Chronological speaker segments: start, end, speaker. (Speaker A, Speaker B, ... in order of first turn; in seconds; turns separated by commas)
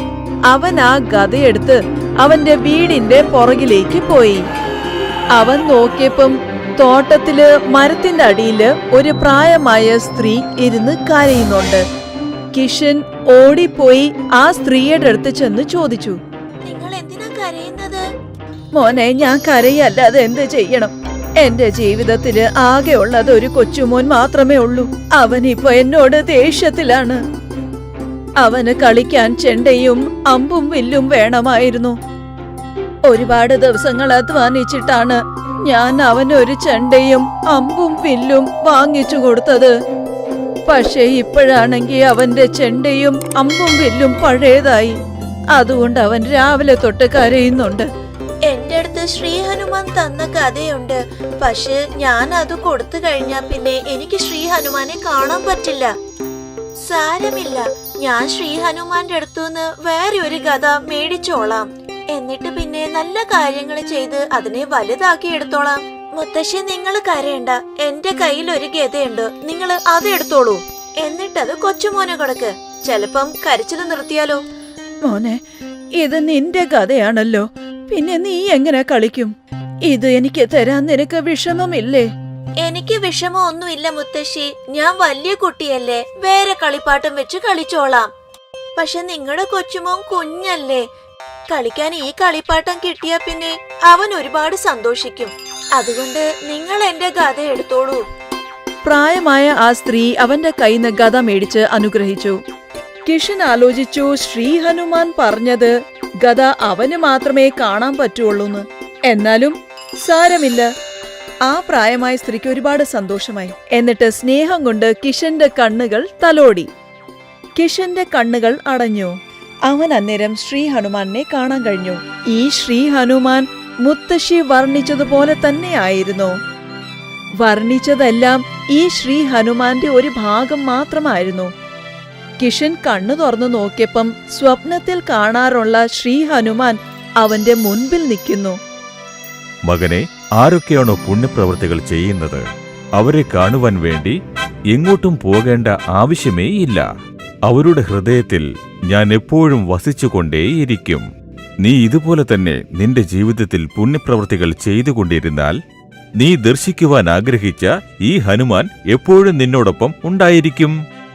Speaker A: 0.5-4.4, Speaker A: 5.4-11.8, Speaker A: 12.5-16.2, Speaker B: 16.7-18.0, Speaker A: 18.8-27.2, Speaker A: 28.4-32.0, Speaker A: 33.1-39.7, Speaker A: 40.7-45.0, Speaker A: 45.6-47.9, Speaker B: 48.5-55.9, Speaker B: 56.8-74.4, Speaker A: 75.0-75.4, Speaker A: 76.0-79.3, Speaker A: 79.9-82.1, Speaker B: 82.6-88.1, Speaker B: 88.8-90.8, Speaker B: 91.5-98.0, Speaker A: 98.8-102.4, Speaker A: 103.1-110.7, Speaker A: 111.5-116.7, Speaker A: 117.6-119.1, Speaker A: 119.7-126.4, Speaker A: 127.4-131.5, Speaker A: 132.4-138.6, Speaker C: 139.7-142.4, Speaker C: 143.0-144.2, Speaker C: 144.7-146.9, Speaker C: 147.5-151.1, Speaker C: 151.6-155.6, Speaker C: 156.2-160.8